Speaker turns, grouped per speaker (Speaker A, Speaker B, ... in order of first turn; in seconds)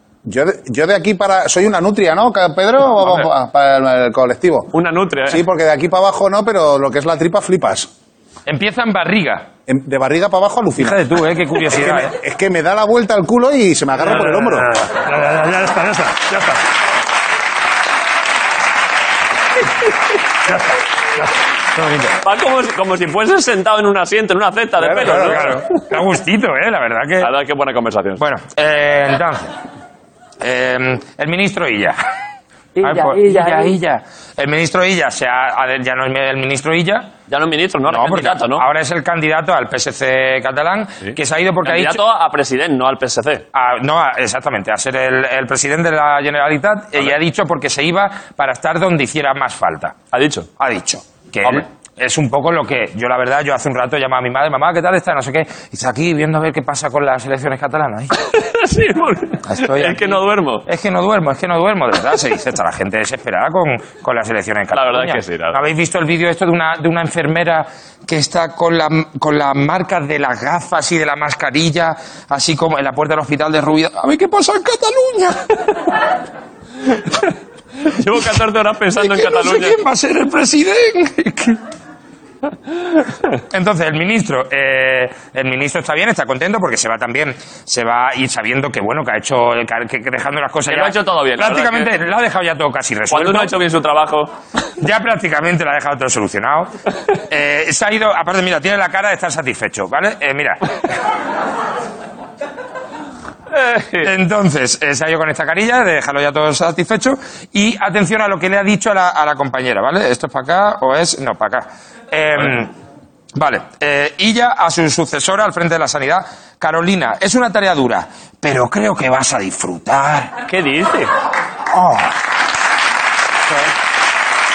Speaker A: 0.2-4.7, 5.3-7.9, 9.7-11.0, 11.7-14.7
Speaker B: 4.7-5.4, 22.2-25.6, 27.2-28.2, 32.8-33.6, 37.3-38.6, 41.0-43.4, 50.1-50.5, 58.2-60.6, 64.7-65.6, 77.8-79.8, 90.7-91.9, 93.1-94.3, 103.5-104.1, 120.5-121.1
Speaker C: 8.4-9.5, 10.8-12.1, 21.7-22.1, 24.9-27.3, 28.2-29.5, 30.4-32.0, 32.8-37.1, 37.9-42.0, 43.5-50.0, 50.6-58.1, 59.5-75.7, 78.9-81.6, 83.5-93.6, 94.8-100.7, 104.0-112.7, 113.3-120.3, 121.7-122.1
Speaker D: 14.1-16.6